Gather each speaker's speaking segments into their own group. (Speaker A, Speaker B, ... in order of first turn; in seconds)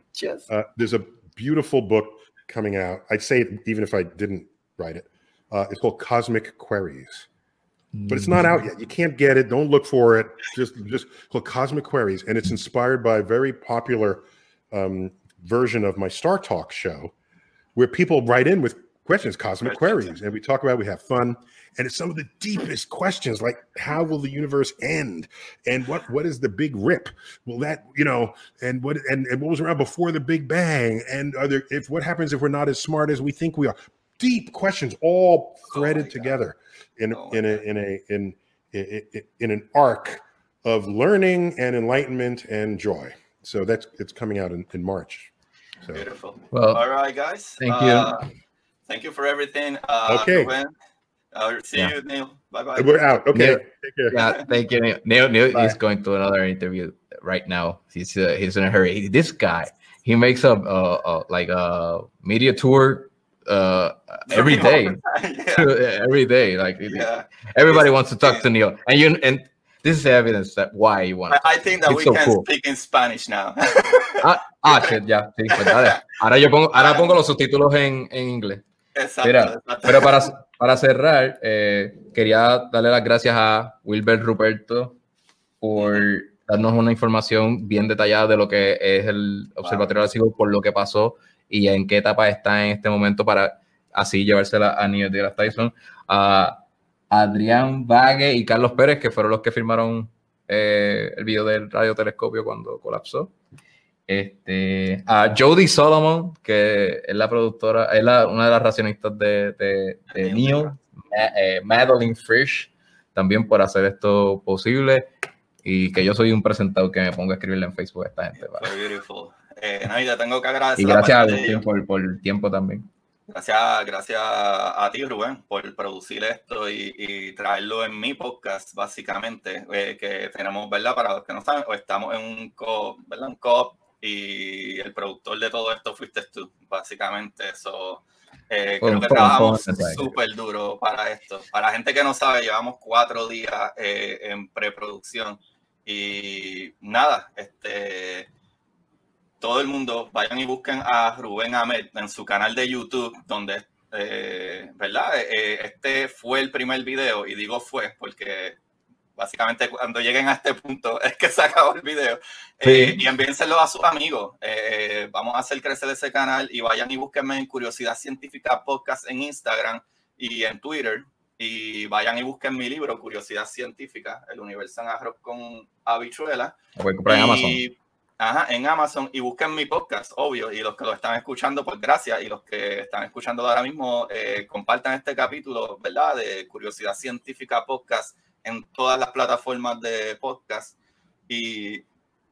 Speaker A: 0.1-0.5, 7.9-8.6, 46.5-46.8, 47.6-48.2, 53.3-65.0, 65.6-72.5, 74.2-78.6, 79.2-85.0, 85.6-103.3, 104.1-115.1, 115.6-118.7, 120.8-122.9, 138.8-140.1, 162.6-163.1, 176.8-177.6
Speaker B: 0.5-7.3, 8.1-17.1, 17.8-45.3, 50.1-50.5, 52.8-54.1
Speaker C: 19.6-20.1, 35.7-36.3, 37.1-37.6, 45.9-48.3, 48.9-50.7, 51.3-53.0, 64.3-65.7, 66.8-68.4, 71.3-75.0, 75.5-76.0, 76.7-77.1, 78.9-80.3, 85.8-86.1, 89.6-89.9, 110.1-110.7, 118.4-121.6, 123.3-148.3, 149.4-158.6, 159.2-176.5, 177.1-190.7, 191.3-191.8